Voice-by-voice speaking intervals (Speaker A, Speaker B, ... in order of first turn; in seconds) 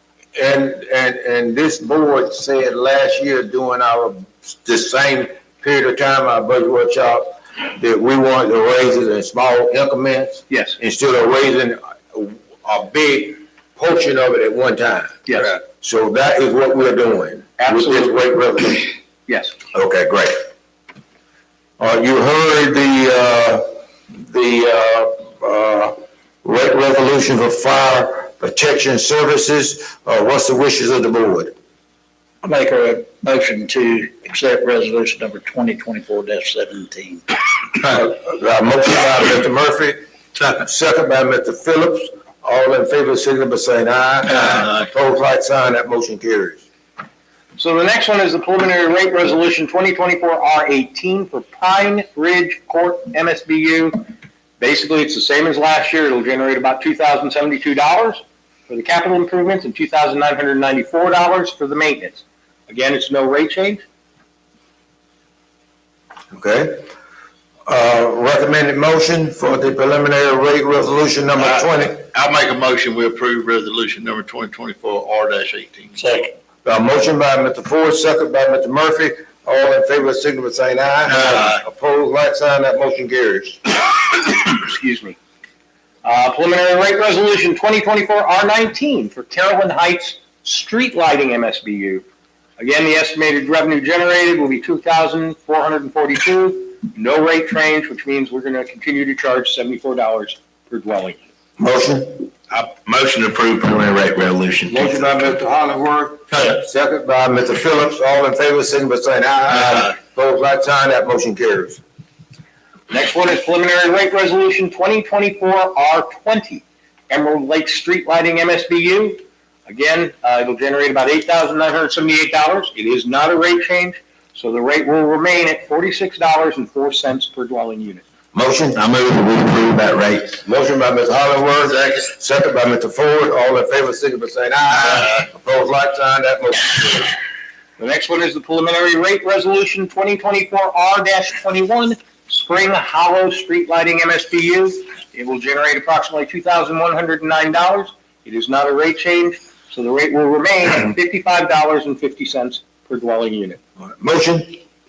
Speaker A: 0.3-18.9, 19.7-20.4, 21.8-31.5, 37.8-40.0, 40.6-46.6, 66.3-66.9, 67.7-72.1, 76.7-83.6, 101.6-102.3, 104.7-111.8, 128.3-137.2, 154.0-154.6
Speaker B: 10.5-10.8, 15.3-15.6, 17.6-18.2, 19.3-19.6, 47.6-63.8, 84.2-85.2, 86.0-92.1, 92.6-101.2, 112.9-128.1, 137.8-153.6
Speaker C: 32.4-37.2, 76.0-76.3
Speaker D: 71.4-76.0, 81.1-81.6, 102.5-105.1